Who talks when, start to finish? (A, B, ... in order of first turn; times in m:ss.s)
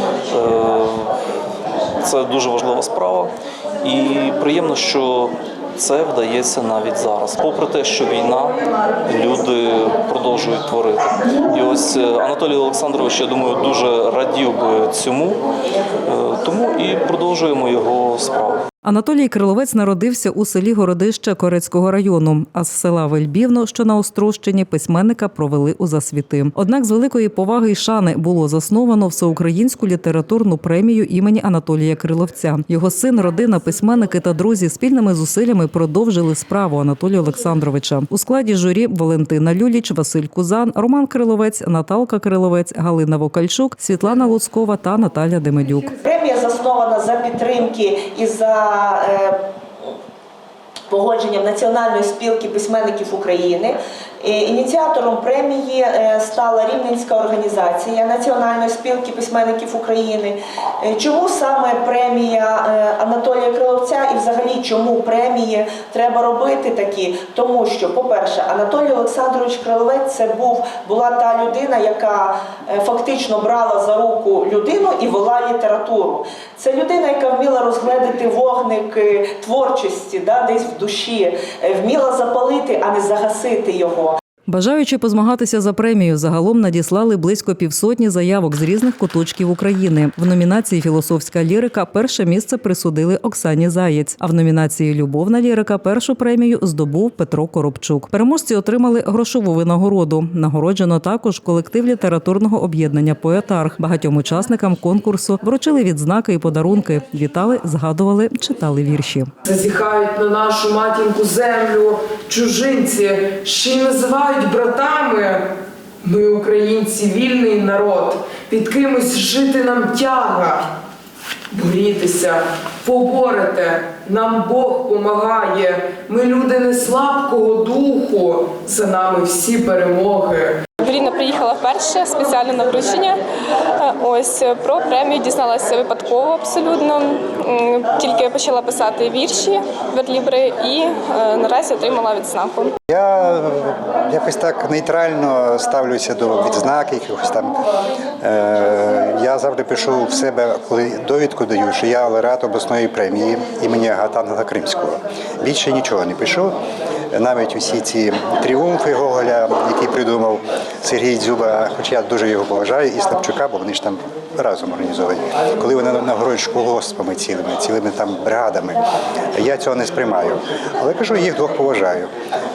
0:00.3-0:01.2 A
0:02.0-0:03.3 A
0:03.8-0:15.4 A
0:16.0-0:18.6 A
0:18.8-0:46.0 B
0:46.0-0:49.4 C
0:50.9-1:24.2 C
1:24.5-1:49.3 B
1:49.4-1:55.4 D
1:56.0-2:00.7 D
2:01.5-2:10.6 D
2:10.8-2:13.2 E
2:13.8-2:22.7 E
2:22.9-2:27.6 F
2:28.2-2:36.6 F
2:37.1-2:48.8 F
2:49.3-2:52.1 F